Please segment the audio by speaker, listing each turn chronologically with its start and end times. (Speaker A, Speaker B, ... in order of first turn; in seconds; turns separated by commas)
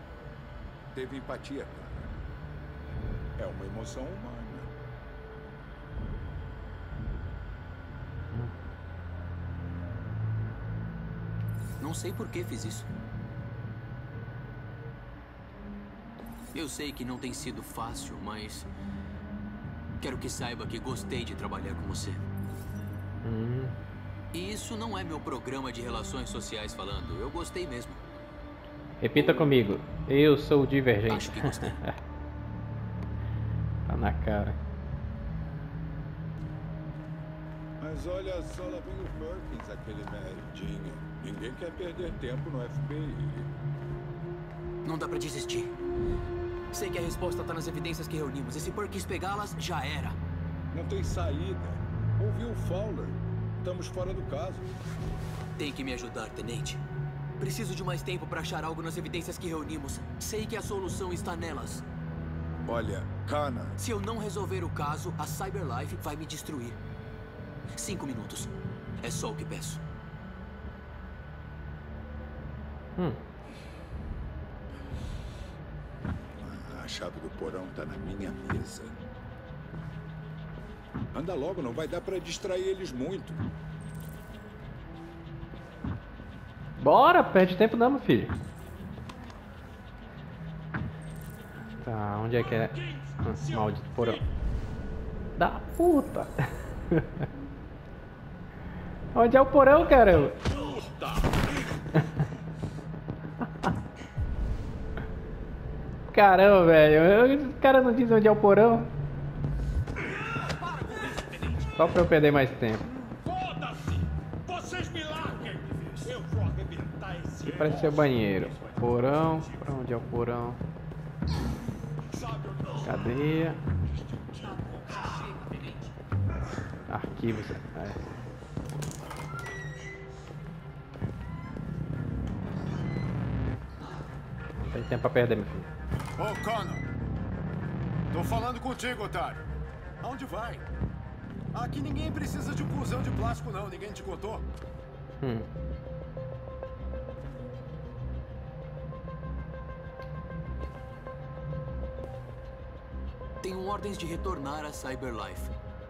Speaker A: 0.9-2.1, Speaker A: 3.4-4.7, Speaker B: 11.8-12.9, Speaker B: 16.5-18.7, Speaker B: 20.0-22.2, Speaker C: 23.2-23.8, Speaker B: 24.3-28.0, Speaker C: 29.0-31.9, Speaker B: 31.1-31.8, Speaker C: 33.9-34.6, Speaker A: 37.8-43.5, Speaker B: 44.8-45.7, Speaker B: 46.7-50.1, Speaker A: 50.7-54.7, Speaker B: 55.6-56.8, Speaker B: 57.4-61.8, Speaker A: 62.6-63.8, Speaker B: 63.8-66.8, Speaker B: 67.8-69.8, Speaker A: 76.4-79.0, Speaker A: 81.1-83.4, Speaker C: 86.8-88.3, Speaker C: 91.8-94.2, Speaker C: 95.4-97.2, Speaker C: 99.1-100.4, Speaker A: 100.5-101.4, Speaker C: 106.1-108.9, Speaker C: 111.8-112.8, Speaker A: 113.2-118.1, Speaker C: 117.5-120.6, Speaker A: 122.1-123.1, Speaker C: 122.8-123.6, Speaker A: 124.1-124.6, Speaker C: 126.9-128.0, Speaker C: 134.7-135.7, Speaker D: 136.2-136.8, Speaker D: 138.1-139.4, Speaker D: 140.0-140.6, Speaker D: 141.5-144.4, Speaker C: 145.2-145.5, Speaker B: 153.4-155.5